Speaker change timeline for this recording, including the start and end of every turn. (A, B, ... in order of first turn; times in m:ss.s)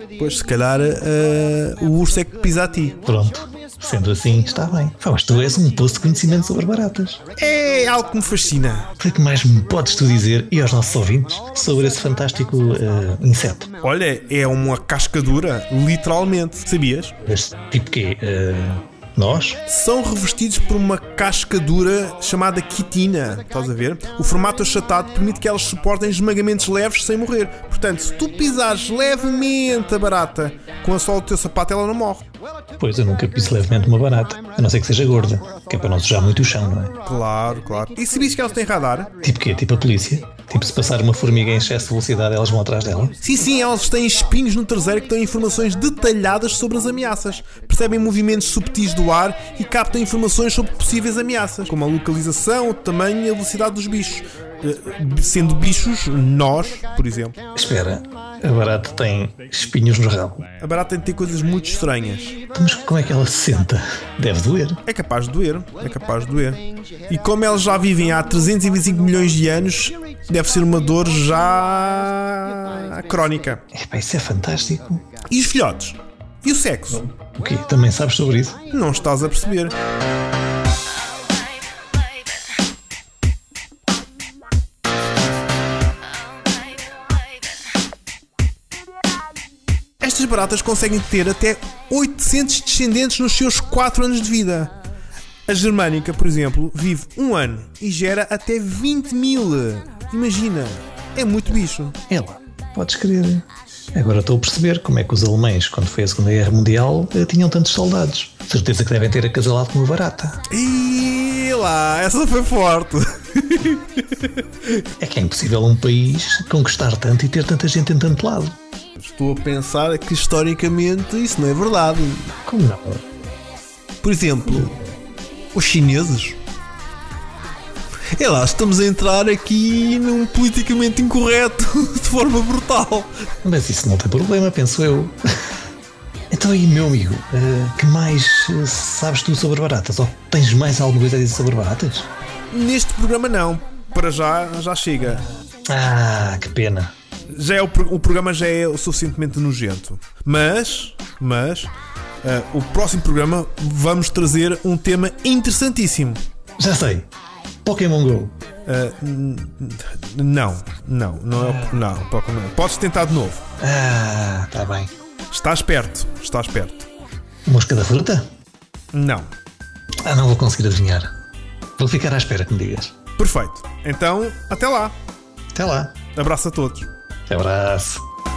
0:00.2-0:03.0 A
0:03.0-0:07.2 B
0:07.3-0:08.9 A
0:09.0-0:13.7 B
0:13.8-0:17.2 A
0:17.2-0:19.6 B
0:19.7-0:32.2 A
0:32.8-0:36.9 B
0:37.0-0:39.1 A
0:39.2-0:43.2 B
0:43.2-0:57.4 A
0:57.5-1:00.4 B
1:00.6-1:02.4 A
1:02.5-1:04.8 B
1:04.8-1:13.6 A
1:13.7-1:15.0 B
1:15.3-1:17.1 A
1:17.1-1:18.6 B
1:18.7-1:19.7 A
1:30.0-1:34.7 A
1:35.5-1:42.0 A
1:42.1-1:50.4 B
1:50.5-1:54.9 A
1:55.0-1:58.5 B
1:59.0-2:02.3 A
2:02.4-2:03.0 B
2:04.0-2:04.8 A
2:05.5-2:06.4 A
2:08.1-2:13.1 A
2:13.4-2:15.5 B
2:16.3-2:22.1 B
2:22.5-2:25.2 A
2:25.6-2:26.9 B
2:27.3-2:31.7 A
2:32.2-2:36.2 A
2:36.6-2:37.1 B
2:37.6-2:38.3 B
2:38.6-2:43.4 A
2:41.4-2:41.8 B
2:43.6-2:44.9 B
2:45.3-2:46.9 A
2:47.4-2:48.3 B
2:48.9-2:49.2 A
2:50.0-2:51.1 B
2:51.8-2:52.9 B
2:53.2-2:54.9 A
2:55.5-2:56.0 B
2:56.1-2:56.9 A
2:57.3-2:58.0 B